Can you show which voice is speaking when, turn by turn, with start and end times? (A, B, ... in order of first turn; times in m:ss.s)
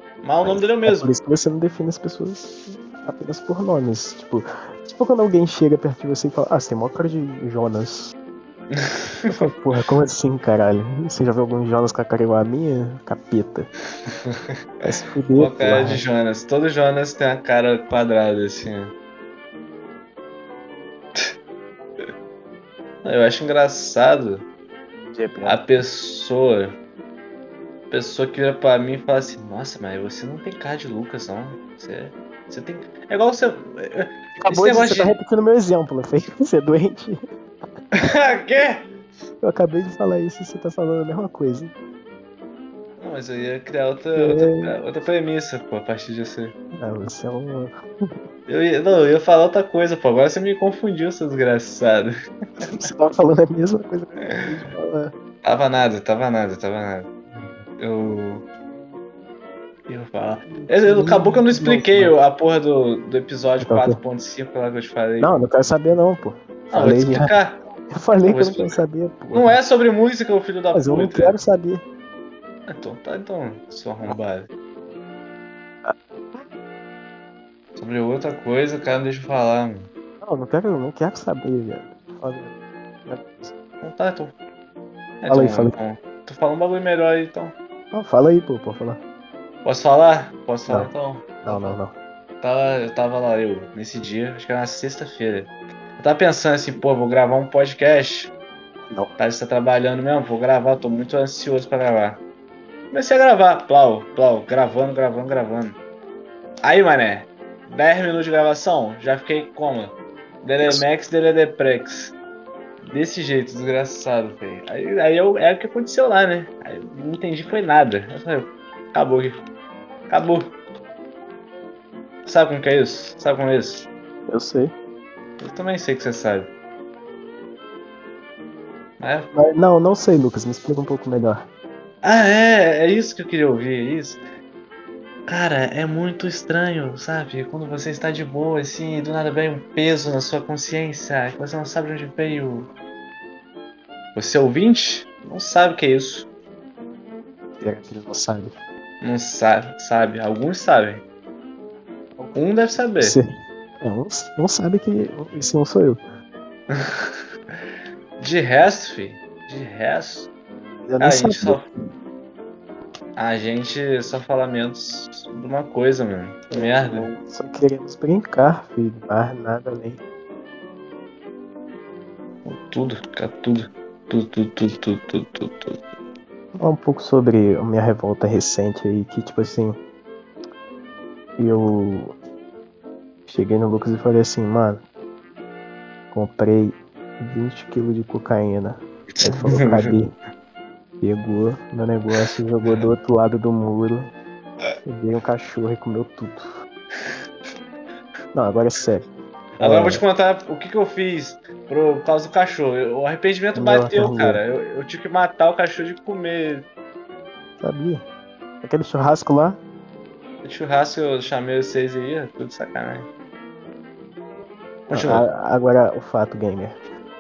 0:00.2-0:01.1 A
0:00.4-0:08.1 B
0:08.7-0:09.5 A
0:09.3-0:13.7 B
0:14.8-0:16.0 B
0:15.4-0:18.9 A
0:23.0-0:24.4 A
0:25.1-0:25.6 B
0:25.4-0:26.8 A
0:27.9-0:35.1 A
0:34.4-0:37.2 B
0:38.0-0:38.9 A
0:39.4-0:41.7 B
0:43.0-0:46.6 A
0:44.2-0:44.7 B
0:46.8-0:47.8 B
0:48.5-0:52.1 A
0:52.6-0:55.1 B
0:54.2-0:54.5 A
0:55.4-0:57.1 A
0:57.3-0:57.6 B
0:57.8-0:58.4 A
0:59.9-1:05.3 A
1:00.5-1:02.2 B
1:03.6-1:04.0 B
1:05.2-1:07.3 B
1:06.7-1:07.6 A
1:07.9-1:09.6 B
1:08.3-1:08.8 A
1:09.3-1:11.4 A
1:10.7-1:11.8 B
1:12.7-1:14.5 A
1:15.8-1:16.4 B
1:17.8-1:19.9 A
1:20.2-1:22.5 B
1:23.1-1:23.5 B
1:23.8-1:24.3 A
1:25.2-1:27.6 A
1:25.3-1:25.8 B
1:27.9-1:29.0 B
1:29.6-1:31.8 A
1:31.4-1:32.0 B
1:32.4-1:38.3 A
1:38.9-1:39.2 B
1:39.2-1:42.2 A
1:42.9-1:45.8 A
1:46.6-1:52.1 A
1:52.9-1:59.4 A
2:00.1-2:00.5 A
2:02.3-2:03.9 A
2:04.3-2:04.7 B
2:05.4-2:06.5 A
2:09.0-2:09.3 A
2:09.3-2:11.5 B
2:12.0-2:14.2 A
2:15.3-2:22.7 A
2:24.2-2:26.3 A
2:27.6-2:28.5 B
2:29.0-2:31.0 A
2:32.4-2:33.2 A
2:33.0-2:33.3 B
2:33.8-2:36.0 B
2:36.7-2:37.2 A
2:38.2-2:40.3 A
2:40.9-2:41.6 B
2:41.0-2:41.6 A
2:43.2-2:47.1 A
2:46.5-2:50.0 B
2:52.4-2:55.8 A
2:56.6-2:59.8 B
3:01.4-3:02.2 B
3:03.3-3:04.8 B
3:06.1-3:10.1 B
3:09.2-3:10.0 A
3:11.0-3:14.1 B
3:12.2-3:12.9 A
3:14.9-3:16.4 B
3:18.3-3:19.1 B
3:19.6-3:26.7 A
3:19.6-3:20.0 B
3:23.6-3:24.4 B
3:27.6-3:28.0 B
3:28.6-3:29.6 B
3:30.4-3:33.1 A
3:34.9-3:35.3 A
3:34.9-3:36.8 B